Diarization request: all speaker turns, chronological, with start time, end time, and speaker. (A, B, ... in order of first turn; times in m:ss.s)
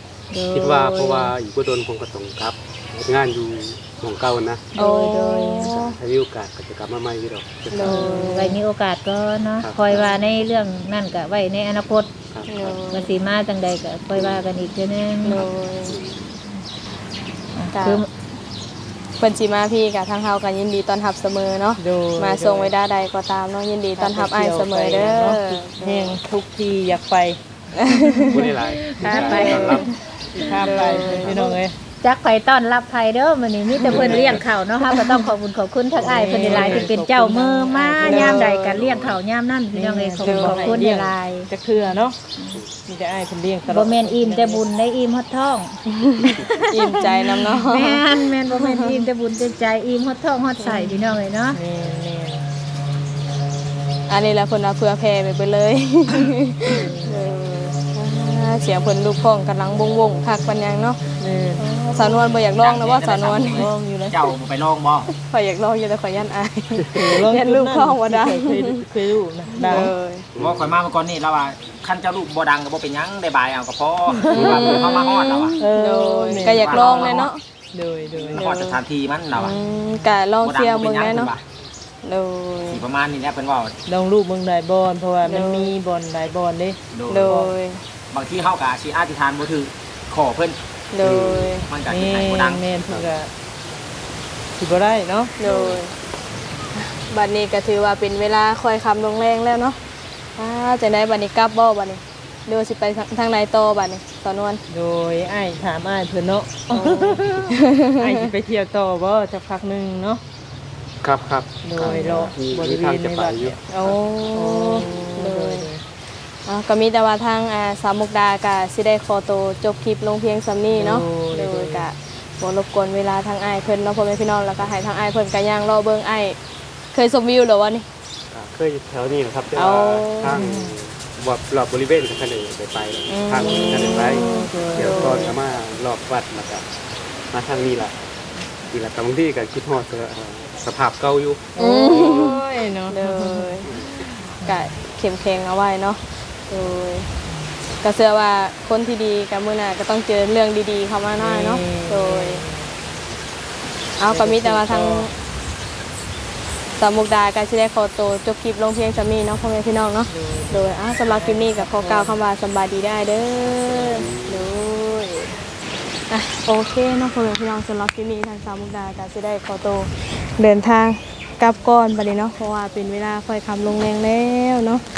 0:00.3-0:01.3 A
0:00.5-0:04.7 B
0:04.8-0:05.7 A
0:04.8-0:06.0 C
0:05.6-0:08.3 B
0:07.7-0:08.6 C
0:07.8-0:12.1 A
0:09.6-0:10.2 B
0:12.3-0:12.8 B
0:12.5-0:13.1 C
0:12.9-0:15.4 A
0:14.1-0:14.4 B
0:15.2-0:16.0 C
0:15.8-0:16.3 B
0:17.5-0:18.1 A
0:17.7-0:18.0 C
0:19.2-0:26.2 C
0:21.8-0:22.7 D
0:24.0-0:27.4 D
0:27.7-0:31.5 C
0:28.0-0:29.9 B
0:28.0-0:29.9 A
0:29.1-0:29.8 D
0:30.3-0:31.8 D
0:30.4-0:31.4 B
0:32.0-0:42.6 A
0:33.8-0:34.1 C
0:33.8-0:34.4 B
0:33.8-0:34.4 D
0:34.9-0:35.3 C
0:35.9-0:36.9 B
0:36.0-0:38.8 D
0:38.0-0:38.8 C
0:38.7-0:39.2 B
0:39.7-0:42.2 D
0:40.2-0:40.8 C
0:42.8-0:44.6 D
0:43.7-0:51.6 A
0:45.9-0:49.0 C
0:50.6-0:51.1 C
0:51.5-0:52.4 D
0:54.1-1:01.0 C
0:56.6-0:57.2 D
1:01.2-1:02.1 D
1:01.6-1:03.7 C
1:02.2-1:05.1 E
1:03.5-1:04.3 D
1:05.1-1:08.8 C
1:06.9-1:09.9 D
1:09.5-1:10.3 C
1:10.3-1:10.8 B
1:10.4-1:15.6 E
1:14.2-1:14.6 D
1:14.3-1:17.4 C
1:14.4-1:14.9 B
1:15.6-1:18.4 D
1:16.3-1:17.2 E
1:18.2-1:18.8 C
1:18.3-1:19.5 E
1:19.3-1:21.3 C
1:20.4-1:21.4 E
1:22.0-1:22.8 C
1:22.7-1:23.7 E
1:23.9-1:27.5 D
1:25.2-1:25.7 C
1:26.9-1:27.4 E
1:27.1-1:27.8 C
1:28.1-1:30.6 E
1:30.9-1:31.7 C
1:31.0-1:31.6 B
1:31.7-1:32.6 E
1:31.9-1:33.3 D
1:32.9-1:33.1 B
1:34.6-1:35.8 D
1:35.4-1:35.9 C
1:36.8-1:39.8 C
1:40.4-1:44.6 C
1:44.7-1:50.2 D
1:46.7-1:48.3 C
1:51.0-1:54.0 B
1:51.6-1:53.6 D
1:51.8-1:52.3 C
1:53.7-1:55.7 C
1:54.3-1:55.8 D
1:56.4-2:06.4 C
2:00.7-2:01.9 D
2:06.9-2:07.9 C
2:08.3-2:16.7 B
2:09.5-2:10.8 C
2:13.1-2:15.4 C
2:13.4-2:15.4 D
2:17.3-2:18.0 B
2:18.7-2:22.4 B
2:21.6-2:24.5 D
2:21.6-2:23.7 C
2:23.6-2:24.0 B
2:24.4-2:27.1 C
2:27.8-2:32.4 C
2:31.1-2:32.7 D
2:34.0-2:35.1 C
2:34.0-2:35.1 D
2:36.8-2:45.3 C
2:40.1-2:42.2 D
2:43.4-2:44.5 B
2:46.1-2:54.8 C